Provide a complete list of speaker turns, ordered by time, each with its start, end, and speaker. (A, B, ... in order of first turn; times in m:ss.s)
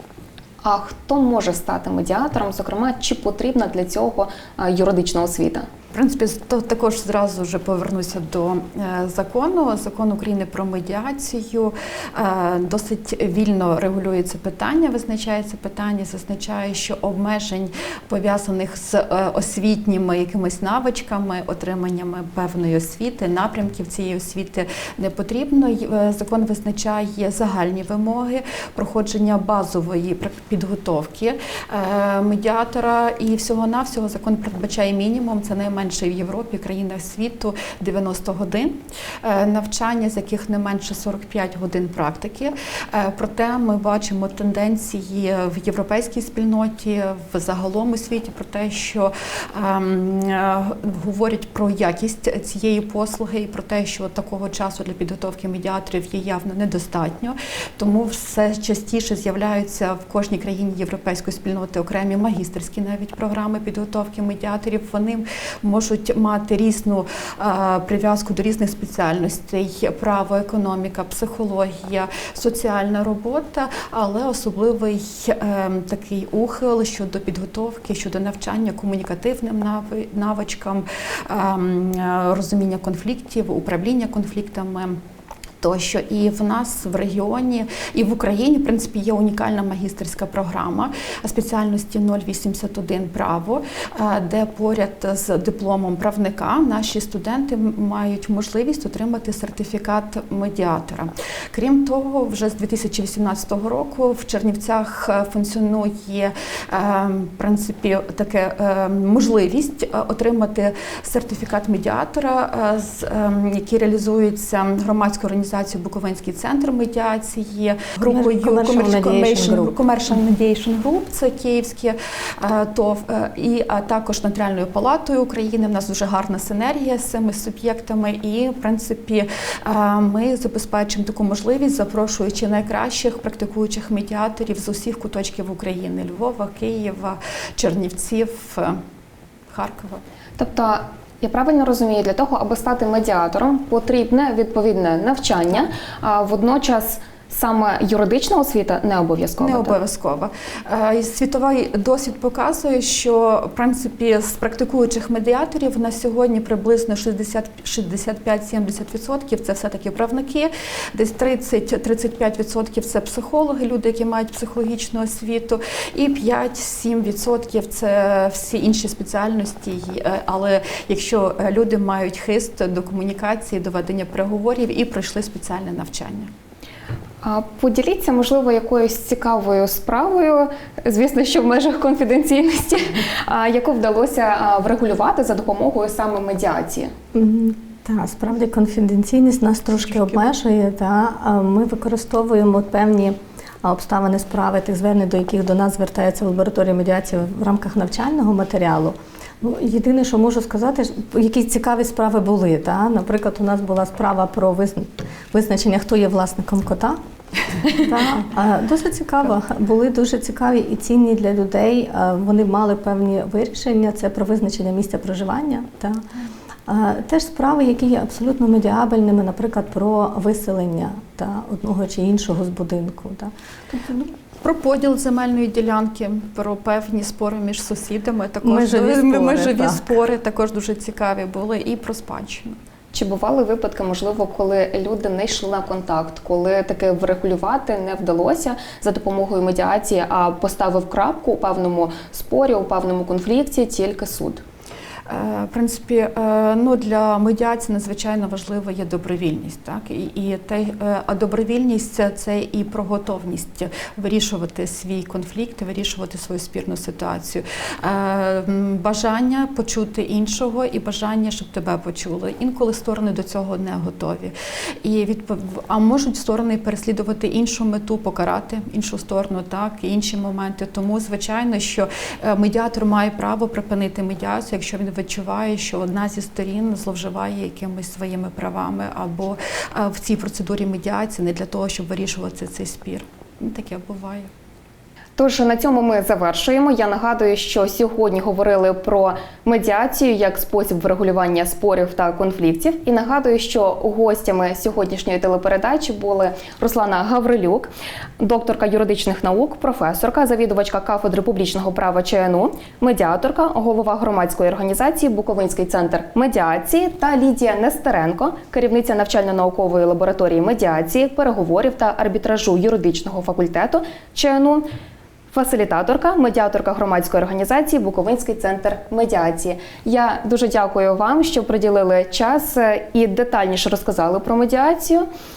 0:00.6-0:05.7 A
0:05.9-1:25.0 B
1:25.6-2:18.8 B
1:58.0-1:59.8 C
2:19.5-2:20.0 B
2:20.4-2:29.8 A
2:29.4-2:56.3 B
2:57.2-3:06.9 A
3:07.1-3:27.0 C
3:27.7-3:36.0 C
3:36.7-3:44.0 C
3:44.4-3:52.6 B
3:48.4-3:49.9 C
3:52.9-4:04.4 A
4:05.1-4:44.3 B
4:45.2-5:14.7 A
5:15.3-5:25.1 A